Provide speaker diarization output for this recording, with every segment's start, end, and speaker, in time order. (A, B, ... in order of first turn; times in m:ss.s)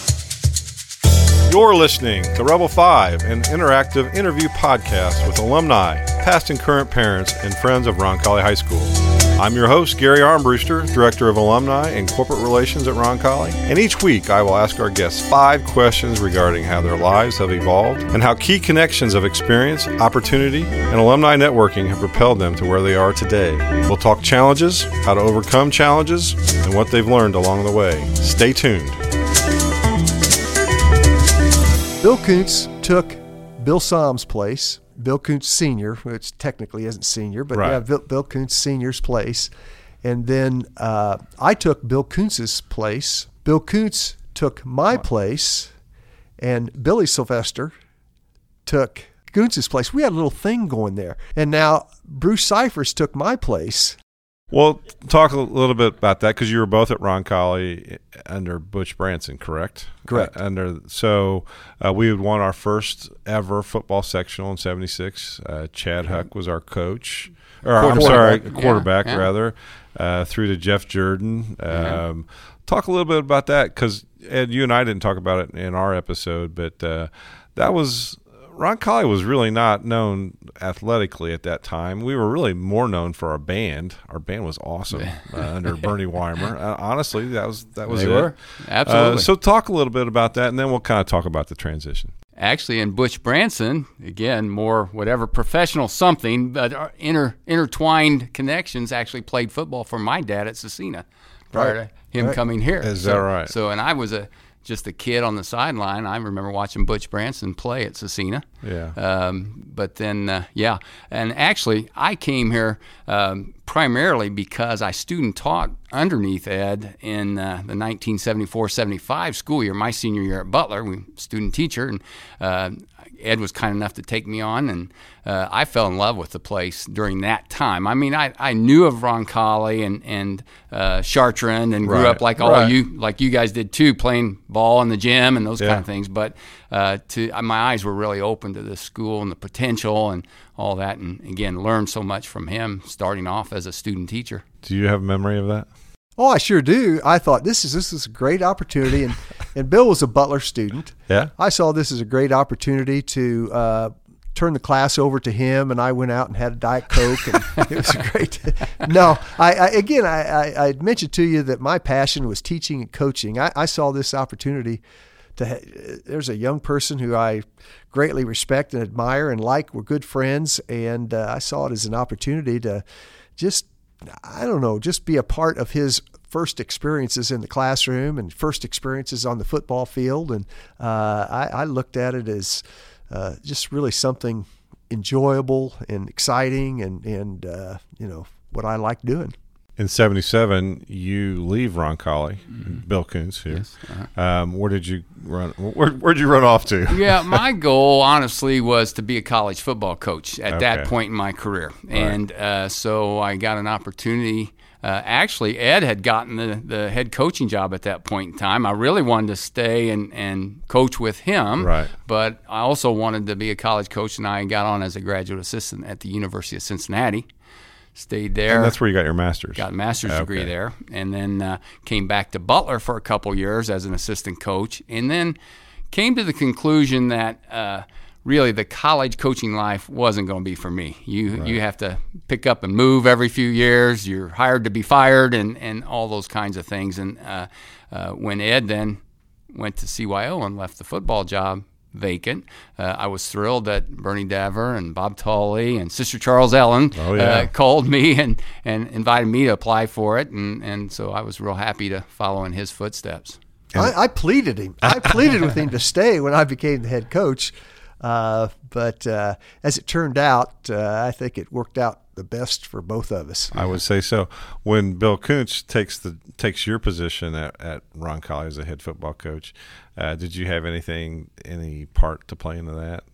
0:01.4-0:29.0 A
0:32.0-0:39.5 B
0:37.5-0:37.8 A
0:40.0-0:45.7 B
0:46.4-0:47.7 B
0:48.6-0:54.0 B
0:54.5-1:32.1 A
1:00.1-1:00.3 B
1:07.8-1:08.4 B
1:07.9-1:09.3 C
1:11.7-1:12.0 C
1:24.9-1:25.9 C
1:27.9-1:29.3 C
1:32.4-2:24.4 C
1:41.5-1:42.4 B
1:42.8-1:43.5 A
1:48.6-1:49.0 A
2:11.8-2:12.8 A
2:15.6-2:15.8 A
2:24.6-2:25.7 A
2:26.2-2:44.8 B
2:45.4-2:52.8 B
2:53.4-3:09.3 B
3:09.8-3:17.4 A
3:13.5-3:14.1 C
3:16.9-3:37.2 C
3:20.5-3:20.9 A
3:21.9-3:22.2 A
3:31.6-3:31.9 A
3:37.9-3:38.8 C
3:38.5-3:40.5 A
3:39.5-3:45.4 C
3:45.9-3:59.0 C
3:59.5-4:13.4 C
4:06.9-4:07.5 A
4:13.7-4:23.5 B
4:23.5-4:33.0 A